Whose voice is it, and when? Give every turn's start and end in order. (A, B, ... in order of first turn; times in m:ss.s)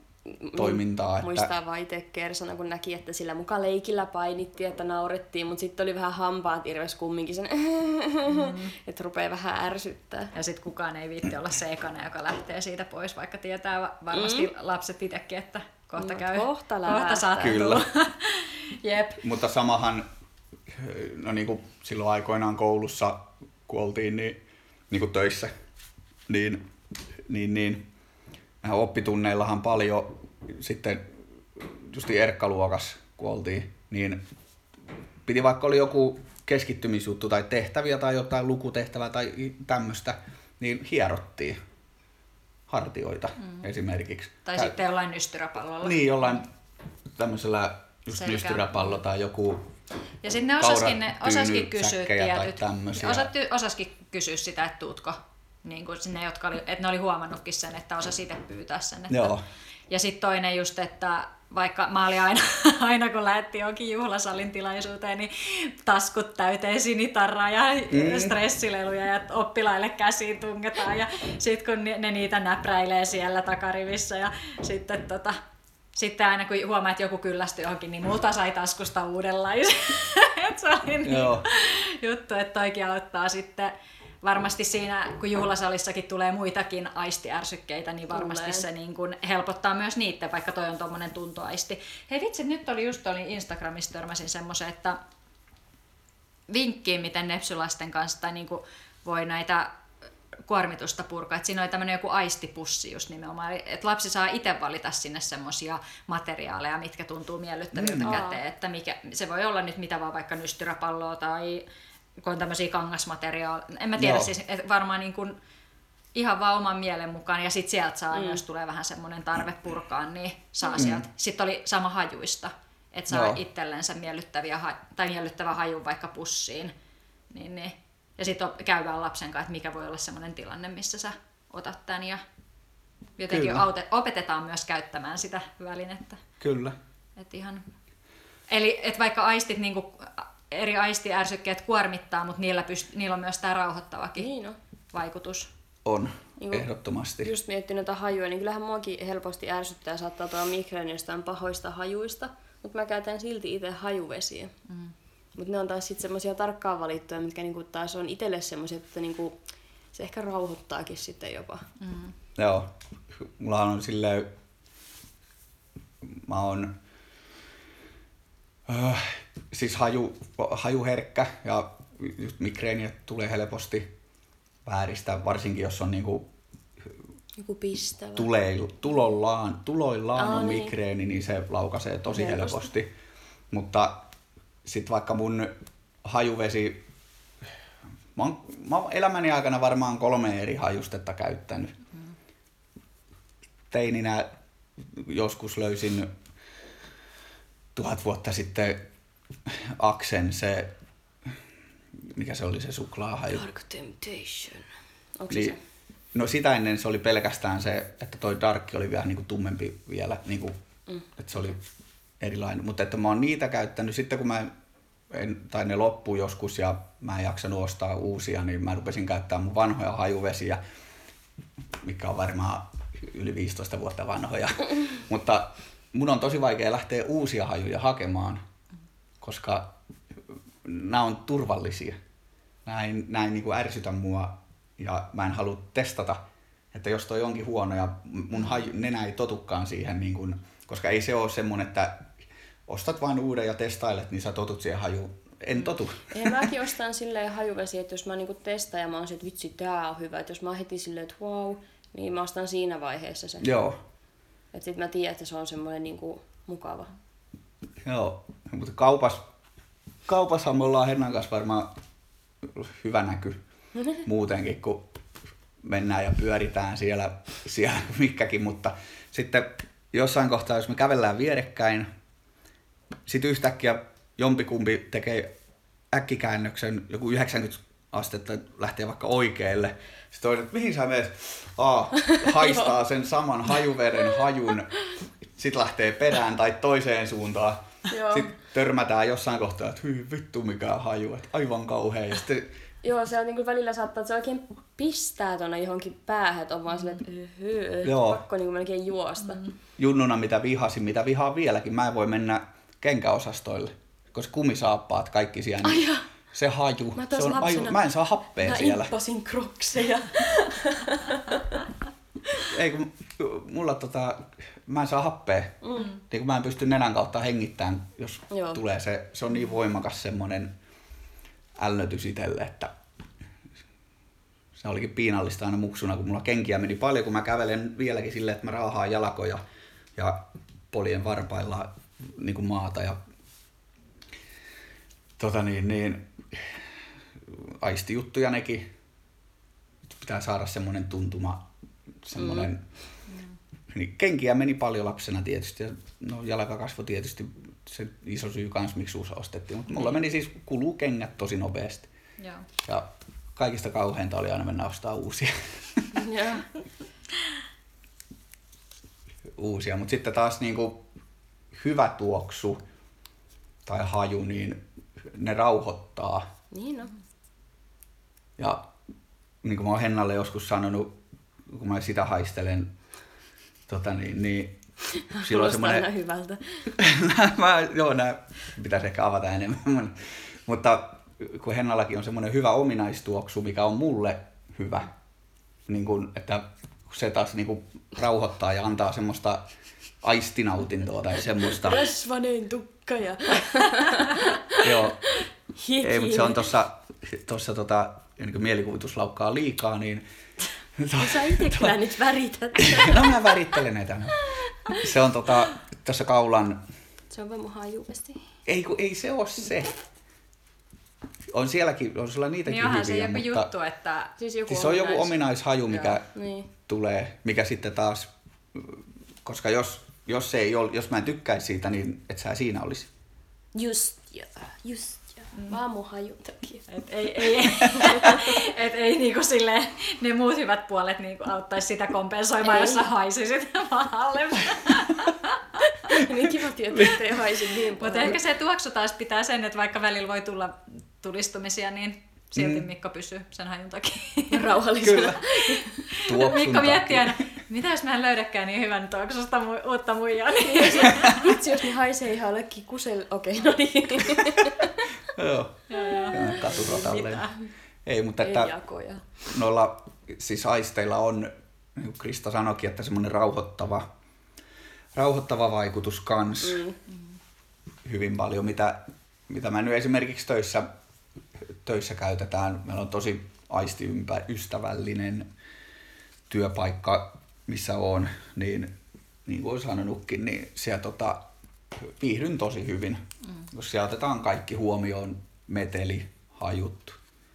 0:00.2-0:10.3 A
0:00.5-0:01.5 B
0:08.3-0:08.7 C
0:10.3-0:19.2 C
0:14.1-0:14.5 A
0:16.0-0:17.7 A
0:17.4-0:17.8 B
0:19.2-0:20.0 B
0:20.7-0:25.5 B
0:26.3-0:26.6 B
0:27.3-0:27.8 B
0:28.6-0:31.0 B
0:31.6-0:34.2 B
0:35.2-0:41.6 B
0:42.7-0:44.7 B
0:44.4-0:46.4 C
0:45.8-0:46.5 B
0:47.2-0:49.7 B
0:48.2-0:49.0 C
0:50.2-0:59.3 C
0:50.6-0:53.3 B
0:59.1-0:59.4 B
0:59.9-1:15.4 C
1:07.9-1:08.4 B
1:15.9-1:35.0 C
1:21.0-1:21.4 B
1:28.1-1:28.7 A
1:36.5-1:39.7 C
1:40.5-1:51.6 C
1:47.7-1:48.2 B
1:48.0-1:48.4 A
1:52.2-1:55.4 C
1:54.0-1:54.3 B
1:56.1-2:06.7 C
1:58.1-1:58.4 A
2:00.7-2:01.0 B
2:03.1-2:03.4 B
2:07.3-2:12.2 C
2:13.2-2:16.2 C
2:13.3-2:13.7 B
2:16.4-2:16.8 B
2:17.2-2:17.6 C
2:18.5-2:24.3 C
2:24.2-2:24.6 A
2:24.9-2:25.5 C
2:25.8-2:27.3 B
2:26.4-2:26.7 A
2:27.2-2:34.5 A
2:34.7-2:34.9 C
2:35.4-2:39.4 A
2:39.9-2:41.6 A
2:41.8-2:42.1 C
2:42.4-2:44.3 B
2:46.0-2:46.7 B
2:48.7-2:53.9 B
2:54.6-2:56.3 B
2:57.4-2:58.3 A
2:58.1-3:02.9 B
3:00.2-3:00.7 A
3:02.1-3:02.7 A
3:03.5-3:04.1 B
3:04.6-3:05.5 B
3:06.0-3:06.8 B
3:08.2-3:11.8 B
3:13.7-3:16.1 B
3:17.7-3:18.9 B
3:19.5-3:20.7 B
3:22.1-3:23.5 B
3:23.3-3:24.7 A
3:25.2-3:25.6 A
3:25.3-3:25.6 B
3:26.1-3:30.6 B
3:31.2-3:31.6 B
3:32.2-3:34.5 B
3:35.1-3:40.6 B
3:41.8-3:48.4 B
3:49.2-3:49.7 B
3:50.6-3:52.0 B
3:52.6-3:56.2 B
3:56.7-4:02.1 B
4:02.7-4:06.4 B
4:06.1-4:13.4 A
4:13.4-4:13.8 B
4:14.5-4:16.9 A
4:17.8-4:19.2 B
4:20.1-4:21.7 B
4:22.4-4:23.4 B
4:23.7-4:24.0 A
4:24.0-4:25.0 B
4:25.6-4:31.9 B
4:33.1-4:35.3 B
4:35.9-4:44.8 B
4:42.2-4:42.7 A
4:45.4-4:52.5 B
4:47.9-4:48.3 A
4:52.8-4:59.4 A
4:57.8-4:58.2 B
4:59.8-5:08.9 B
5:05.6-5:06.0 A
5:06.9-5:07.8 A
5:08.4-5:11.7 A
5:12.4-5:20.5 B
5:15.6-5:15.9 A
5:18.3-5:18.6 A
5:21.6-5:22.7 B
5:24.6-5:29.4 B
5:30.0-5:33.0 B
5:35.2-5:36.6 B
5:37.3-5:38.7 B
5:39.8-5:41.4 B
5:42.0-5:42.6 B
5:42.2-5:42.5 A
5:43.1-5:43.3 C
5:43.7-5:51.9 B
5:52.2-5:52.4 C
5:52.6-5:55.9 B
5:55.9-5:56.5 A
5:59.4-6:00.8 B
6:01.5-6:02.6 B
6:03.6-6:06.3 B
6:06.5-6:06.9 A
6:08.4-6:08.7 B
6:09.4-6:11.0 B
6:11.5-6:12.8 B
6:13.7-6:14.6 B
6:15.0-6:16.7 A
6:15.2-6:15.9 B
6:16.7-6:24.9 B
6:25.7-6:29.4 B
6:30.0-6:31.8 B
6:31.6-6:36.5 A
6:34.5-6:35.0 B
6:35.8-6:40.0 B
6:40.8-6:41.7 B
6:40.9-6:43.5 A
6:42.6-6:46.6 B
6:44.3-6:44.8 A
6:47.1-6:48.2 A
6:48.4-6:49.8 B
6:51.3-6:53.5 B
6:52.5-6:54.1 C
6:54.2-6:55.1 A
6:54.5-7:02.9 B
6:55.7-6:56.5 A
7:03.5-7:08.5 A
7:06.7-7:16.0 C
7:12.4-7:12.8 A
7:15.9-7:18.2 A
7:16.7-7:17.0 B
7:17.8-7:31.4 C
7:22.4-7:22.6 B
7:24.3-7:25.7 A
7:24.8-7:25.2 B
7:25.9-7:27.2 B
7:30.4-7:34.9 A
7:35.1-7:37.3 B
7:35.7-7:37.4 C
7:36.2-7:36.6 A
7:37.8-7:38.5 B
7:38.2-7:39.0 A
7:39.2-7:43.9 B
7:44.9-7:46.6 B
7:46.4-7:46.8 A
7:47.8-7:50.7 B
7:51.6-7:55.3 B
7:56.3-7:58.7 B
7:59.2-8:01.2 B
8:01.8-8:07.0 B